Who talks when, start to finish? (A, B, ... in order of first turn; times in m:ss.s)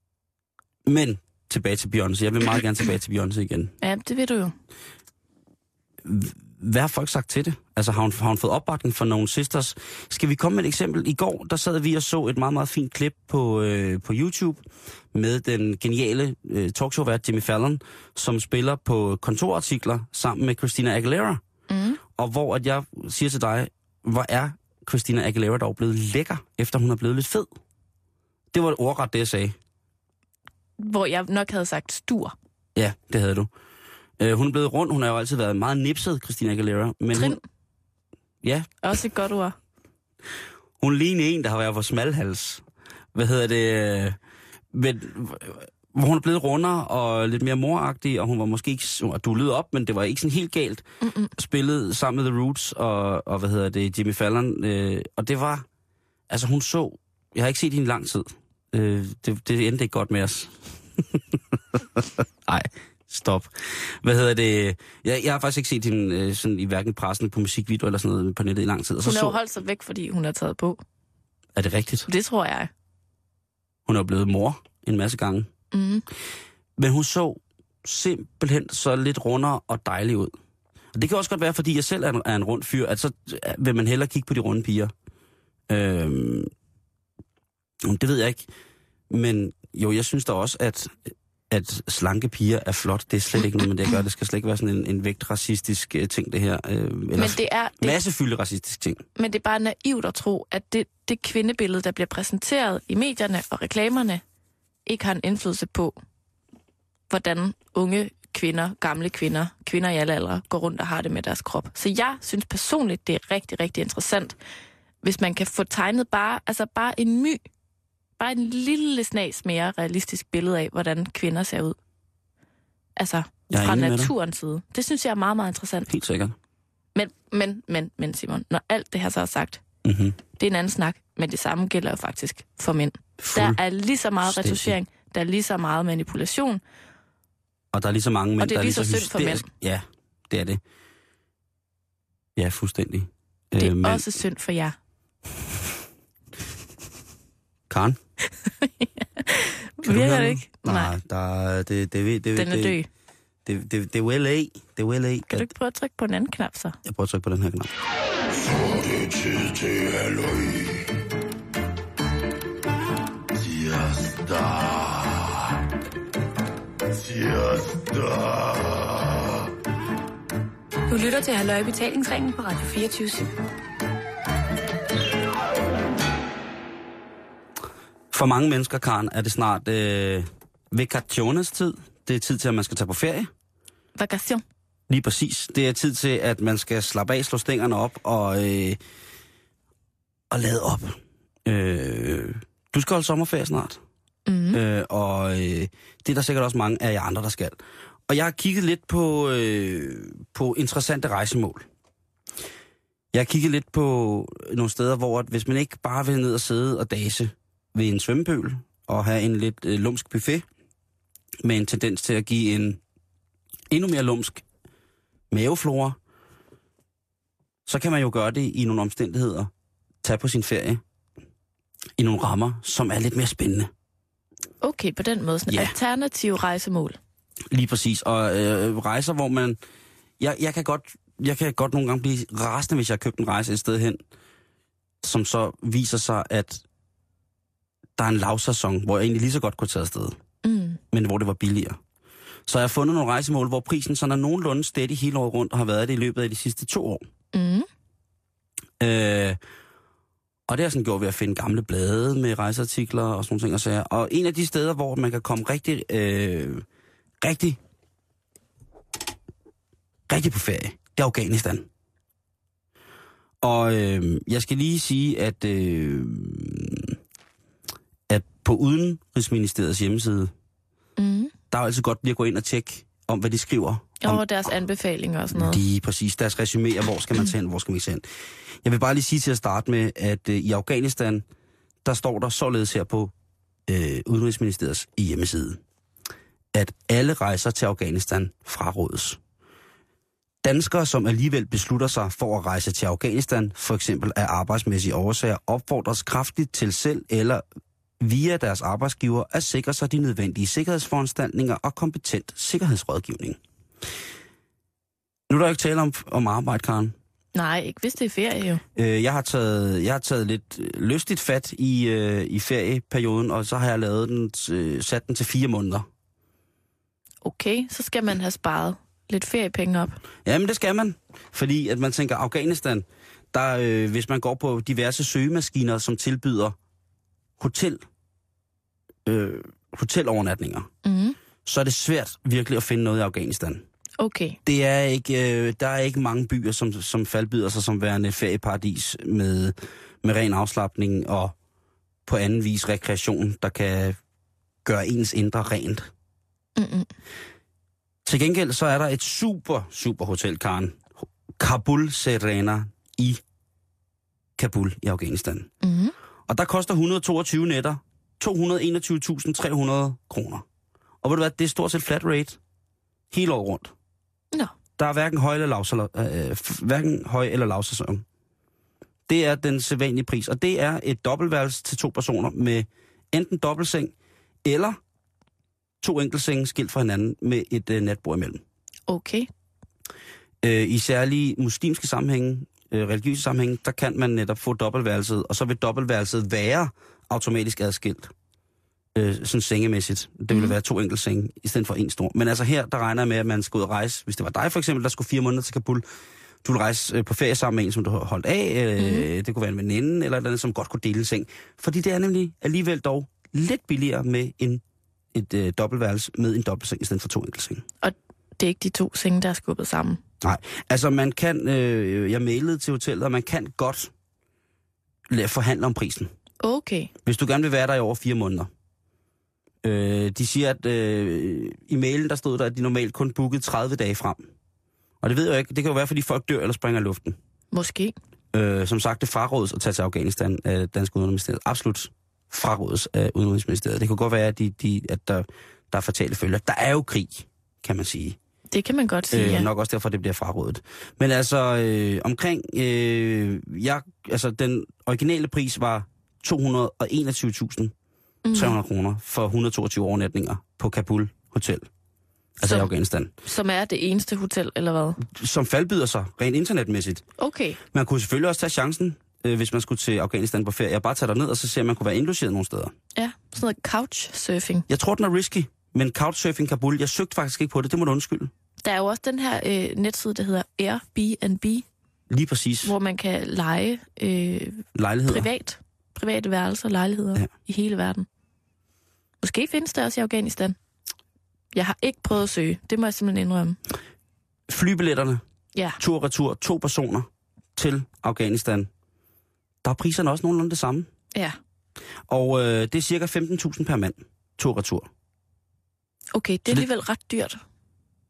0:00.9-0:03.7 A
0:03.8-0:04.5 B
0:06.0-0:14.6 A
0:15.1-0:21.4 A
0:21.7-0:22.0 B
0:22.2-0:27.5 A
0:28.5-0:29.6 A
0:30.8-0:32.3 B
0:32.8-0:33.5 A
0:34.2-0:37.4 A
0:37.1-0:37.4 B
0:38.4-0:38.7 A
0:38.8-0:39.6 B
0:40.8-0:42.6 A
0:43.1-0:44.2 A
0:44.7-0:55.7 A
0:51.0-0:51.3 B
0:56.3-1:09.4 A
1:09.0-1:10.8 B
1:11.6-1:12.1 A
1:12.1-1:12.7 B
1:13.9-1:15.5 A
1:15.7-1:16.0 B
1:16.8-1:20.3 A
1:20.9-1:24.9 A
1:25.7-1:26.5 A
1:27.8-1:28.5 A
1:29.1-1:39.0 A
1:37.2-1:38.0 B
1:39.2-1:44.2 B
1:44.9-1:46.0 B
1:47.1-1:54.4 B
1:55.0-1:57.4 B
1:58.2-2:01.8 B
2:03.0-2:05.9 B
2:03.5-2:04.1 A
2:05.9-2:06.4 A
2:07.0-2:09.6 B
2:09.8-2:10.2 A
2:10.4-2:16.6 B
2:13.2-2:13.6 A
2:14.2-2:14.7 A
2:17.7-2:20.6 A
2:18.4-2:19.5 B
2:22.4-2:24.1 A
2:23.6-2:24.8 B
2:27.7-2:28.0 A
2:28.6-2:30.9 B
2:29.8-2:32.8 A
2:32.3-2:32.9 B
2:33.4-2:35.5 A
2:35.3-2:36.8 B
2:36.8-2:37.7 A
2:38.4-2:40.8 A
2:43.5-2:44.8 A
2:47.2-2:48.3 A
2:50.9-2:53.3 C
2:58.1-3:03.3 A
3:04.0-3:04.4 B
3:04.9-3:08.8 A
3:10.3-3:13.8 A
3:14.3-3:14.6 B
3:14.5-3:21.7 A
3:23.1-3:30.4 A
3:31.4-3:32.8 A
3:33.7-3:34.4 A
3:35.3-3:36.0 A
3:37.7-3:39.5 A
3:40.0-3:40.8 A
3:42.0-3:43.7 A
3:44.6-3:47.0 B
3:45.5-3:45.7 A
3:47.5-3:49.6 A
3:50.2-3:54.0 A
3:55.0-3:56.6 A
3:58.0-4:00.2 A
4:00.4-4:00.8 B
4:00.9-4:01.8 A
4:02.5-4:07.0 A
4:07.3-4:07.7 B
4:08.8-4:09.4 A
4:10.5-4:16.6 A
4:17.2-4:17.6 A
4:20.1-4:21.7 A
4:23.4-4:27.0 A
4:28.1-4:30.3 A
4:31.0-4:31.3 B
4:31.5-4:34.2 A
4:34.0-4:35.6 B
4:35.3-4:38.0 A
4:38.6-4:41.2 A
4:41.8-4:43.1 A
4:43.7-4:45.6 A
4:46.5-4:49.2 A
4:50.4-4:57.4 A
4:58.0-5:03.4 A
5:05.3-5:06.9 A
5:07.3-5:08.6 B
5:08.8-5:15.9 A
5:17.2-5:20.0 B
5:20.2-5:26.6 A
5:27.4-5:27.8 A
5:29.0-5:30.7 A
5:30.8-5:31.2 B
5:31.4-5:33.6 A
5:34.0-5:34.4 B
5:34.4-5:41.3 A
5:42.0-5:44.0 A
5:44.6-5:45.9 A
5:46.6-5:46.9 B
5:48.0-5:53.2 A
5:54.4-5:55.5 A
5:55.6-5:55.9 B
5:56.3-6:00.4 A
6:01.0-6:02.4 A
6:03.1-6:03.7 A
6:04.8-6:08.0 A
6:09.1-6:14.8 A
6:15.8-6:18.4 A
6:18.9-6:19.3 B
6:20.4-6:28.1 A
6:29.0-6:35.8 A
6:30.3-6:30.6 B
6:36.4-6:44.6 A
6:38.8-6:39.1 B
6:45.1-6:47.6 A
6:47.8-6:50.0 B
6:50.2-6:53.9 A
6:55.1-6:56.1 A
6:56.4-6:56.9 B
6:57.0-6:58.5 A
6:59.6-7:04.2 A
7:05.0-7:07.2 A
7:07.5-7:07.9 B
7:08.3-7:18.2 A
7:18.5-7:19.5 B
7:19.1-7:27.7 A
7:28.2-7:28.6 B
7:28.3-7:31.7 A
7:32.4-7:33.1 A
7:32.4-7:32.7 B
7:33.2-7:35.0 B
7:35.0-7:37.0 A
7:37.2-7:37.6 B
7:37.7-7:42.7 A
7:43.0-7:44.7 B
7:44.7-7:48.3 A
7:48.6-7:51.6 B
7:52.1-7:52.7 A
7:52.6-7:58.0 B
7:54.7-7:55.3 A
7:59.2-8:00.6 B
8:01.5-8:03.6 B
8:04.5-8:05.2 A
8:05.8-8:08.7 A
8:09.6-8:10.9 A
8:12.1-8:14.9 A
8:16.1-8:17.4 B